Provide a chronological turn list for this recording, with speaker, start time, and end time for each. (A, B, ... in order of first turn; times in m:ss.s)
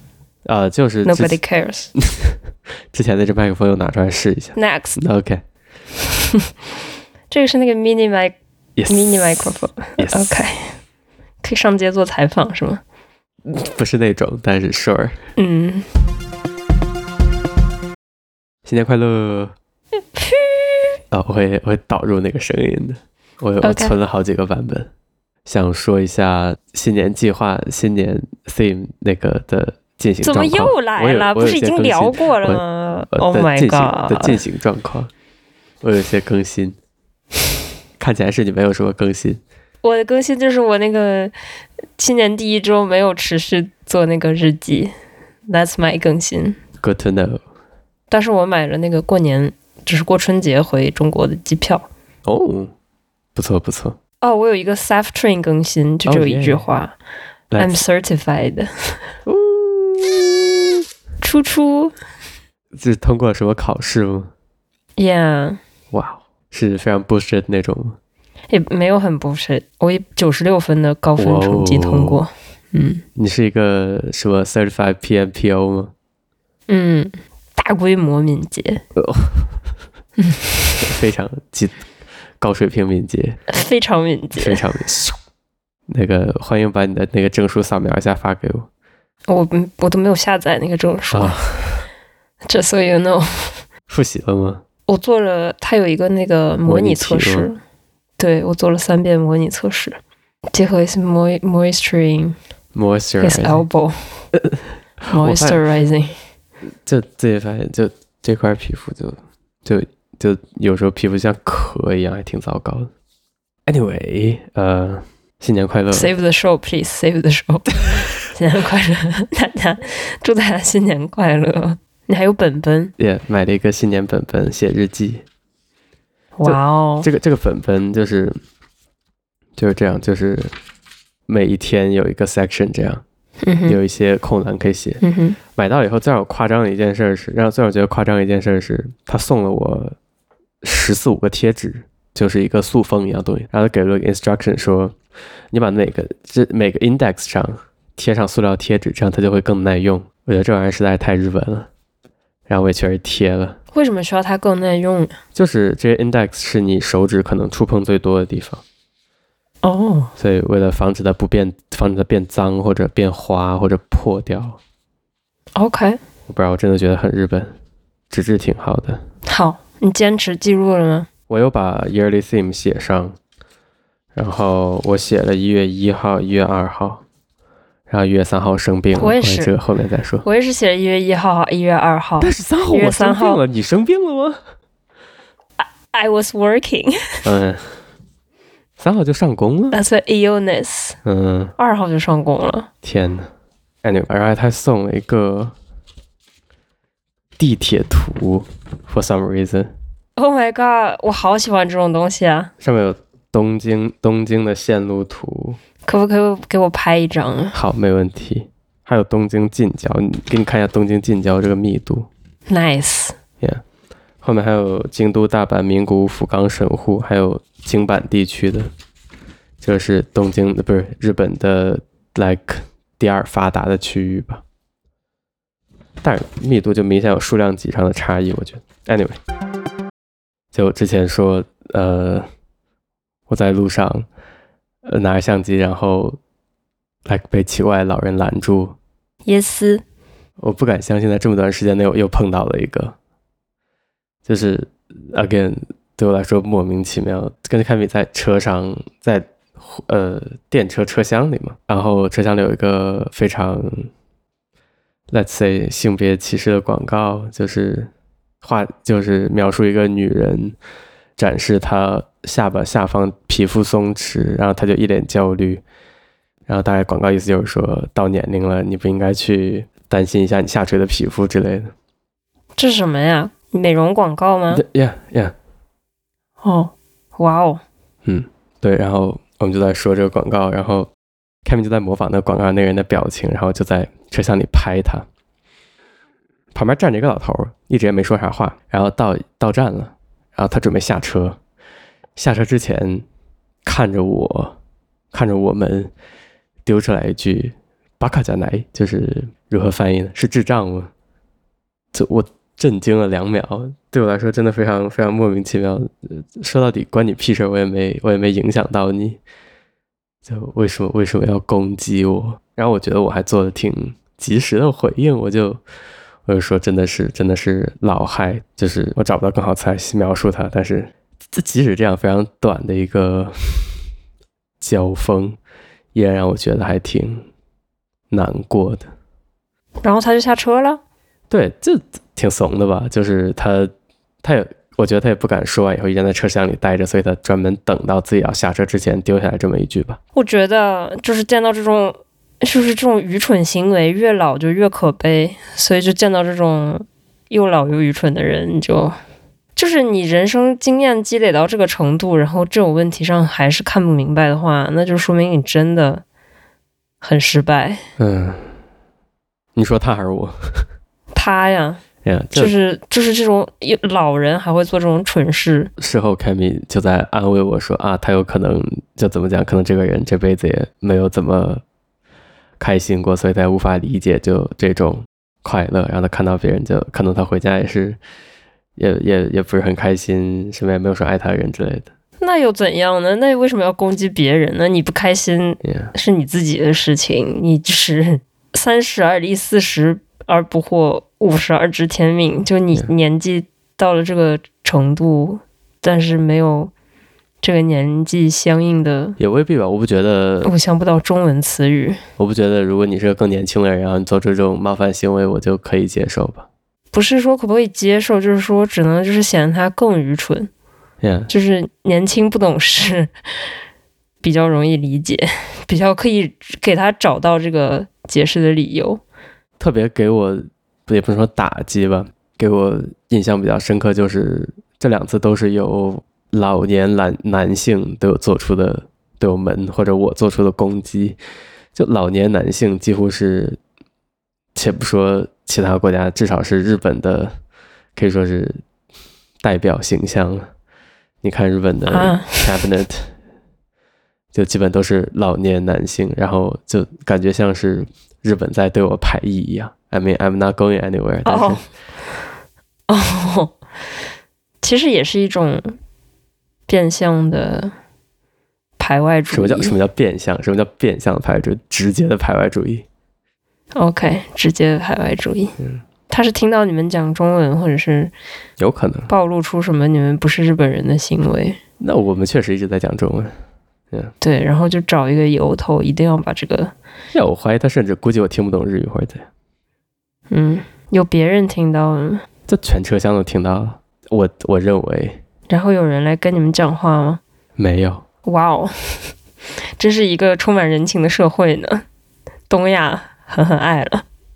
0:00.4-0:01.4 A
0:01.1-0:01.9 B
0:02.0-0:02.4 A
0:02.9-0:05.4 A
0:04.6-0:05.0 B
0:07.3-0:08.4 B
0:08.8-0:09.4 A
0:08.9-0:10.7 B
0:10.0-0:10.4 A
0:11.4-0:12.8 B
0:13.5-0:15.2 A
0:15.4-0:15.9 B
0:18.6-0:19.5 A
0:20.1-0:21.0 B
0:21.1-0:24.9 A
0:23.6-0:24.0 B
0:25.5-0:35.1 A
0:30.2-0:34.4 B
0:35.8-0:36.8 A
0:38.0-0:39.4 A
0:39.8-0:41.3 B
0:42.0-0:44.9 B
0:45.5-0:46.6 B
0:46.8-0:47.4 A
0:48.1-0:51.9 B
0:52.2-0:52.7 A
0:53.4-0:54.0 A
0:54.2-0:57.0 B
0:56.1-0:56.6 A
0:57.5-0:57.8 A
0:57.6-0:59.0 B
0:59.3-1:00.7 A
1:01.2-1:01.9 B
1:02.7-1:04.3 A
1:05.0-1:05.6 B
1:05.9-1:08.0 A
1:08.5-1:13.0 B
1:11.2-1:12.2 A
1:13.2-1:15.9 A
1:16.7-1:18.8 B
1:19.0-1:19.5 A
1:20.2-1:20.8 B
1:20.8-1:21.8 A
1:22.4-1:23.4 A
1:23.5-1:24.6 B
1:24.4-1:25.2 A
1:25.9-1:28.7 A
1:29.3-1:31.4 B
1:31.1-1:31.8 A
1:32.5-1:33.5 B
1:33.9-1:34.6 A
1:34.9-1:37.6 B
1:36.7-1:37.5 A
1:38.2-1:40.0 B
1:40.5-1:42.4 B
1:42.7-1:43.6 A
1:43.2-1:44.0 B
1:44.3-1:45.6 A
1:45.1-1:46.2 B
1:46.8-1:52.9 A
1:53.7-1:56.1 A
1:55.9-2:02.9 B
2:03.0-2:05.2 A
2:06.4-2:07.1 B
2:06.4-2:08.4 A
2:09.6-2:10.5 A
2:11.3-2:13.0 A
2:13.4-2:13.8 B
2:13.7-2:15.0 A
2:15.0-2:15.4 B
2:15.6-2:20.0 A
2:20.6-2:25.0 A
2:25.5-2:31.7 A
2:32.5-2:33.6 A
2:33.7-2:35.1 B
2:35.4-2:38.6 A
2:39.6-2:40.1 B
2:40.2-2:44.6 A
2:45.6-2:46.0 B
2:46.3-2:47.6 A
2:48.1-2:49.0 A
2:49.3-2:51.1 B
2:51.3-2:53.2 A
2:54.2-2:57.0 A
2:57.9-3:00.3 A
2:59.0-2:59.5 B
3:00.2-3:03.4 B
3:02.2-3:04.4 A
3:05.6-3:07.3 B
3:07.2-3:07.7 A
3:08.8-3:09.8 A
3:09.7-3:11.0 B
3:11.0-3:11.5 A
3:11.6-3:12.7 B
3:12.8-3:13.3 A
3:13.8-3:15.6 A
3:17.4-3:19.7 A
3:20.2-3:22.5 B
3:22.6-3:25.6 A
3:25.8-3:27.6 B
3:27.5-3:32.1 A
3:32.5-3:33.2 B
3:34.2-3:38.7 A
3:39.6-3:44.4 A
3:46.0-3:49.2 A
3:50.5-3:52.3 A
3:53.3-3:54.1 A
3:54.8-3:56.2 A
3:57.1-3:58.8 A
3:59.3-3:59.8 B
4:00.4-4:03.0 A
4:04.3-4:13.9 A
4:15.1-4:17.9 A
4:18.4-4:20.6 A
4:21.2-4:25.6 A
4:26.5-4:31.7 A
4:32.6-4:34.6 B
4:34.5-4:35.3 A
4:36.4-4:37.6 B
4:38.0-4:40.9 A
4:41.4-4:45.1 A
4:46.5-4:51.4 A
4:52.2-4:53.0 A
4:53.6-4:54.6 A
4:55.1-4:55.9 A
4:56.6-5:00.9 A
5:01.9-5:09.2 A
5:10.3-5:15.6 A
5:16.3-5:23.8 A
5:24.6-5:25.4 A
5:25.9-5:27.2 A
5:28.1-5:28.9 A
5:29.8-5:30.8 B
5:31.3-5:33.7 A
5:34.2-5:40.0 A
5:40.2-5:49.0 B
5:49.6-5:56.0 B
5:57.0-5:57.8 B
5:58.0-5:58.5 A
5:59.6-6:00.6 A
6:01.1-6:01.8 B
6:02.0-6:02.5 A
6:02.3-6:05.7 B
6:05.8-6:11.6 A
6:12.6-6:18.0 A
6:18.8-6:21.9 A
6:22.2-6:36.7 B
6:25.6-6:25.9 A
6:37.4-6:39.2 B
6:39.2-6:40.5 A
6:40.4-6:42.0 B
6:42.2-6:46.5 A
6:46.9-6:50.5 B
6:51.0-6:51.3 A
6:51.3-6:53.1 B
6:54.2-6:59.0 B
6:59.6-7:11.2 A
7:11.8-7:13.6 A
7:14.6-7:17.4 A
7:18.0-7:18.6 A
7:19.4-7:20.5 A
7:21.2-7:23.1 A
7:21.9-7:22.5 B
7:24.3-7:31.6 A
7:31.2-7:31.6 B
7:32.9-7:33.6 B
7:34.6-7:35.8 B
7:36.7-7:37.7 B
7:38.8-7:39.7 B
7:39.3-7:42.9 A
7:43.8-7:45.6 B
7:46.1-7:48.1 B
7:48.6-7:49.1 A
7:49.1-7:51.6 B
7:51.8-7:53.4 A
7:54.2-7:56.7 B
7:57.1-7:59.3 A
8:00.3-8:02.2 B
8:02.5-8:05.2 A
8:05.5-8:07.2 B
8:07.6-8:08.1 A
8:08.2-8:09.1 B
8:09.8-8:11.8 B
8:12.5-8:14.0 B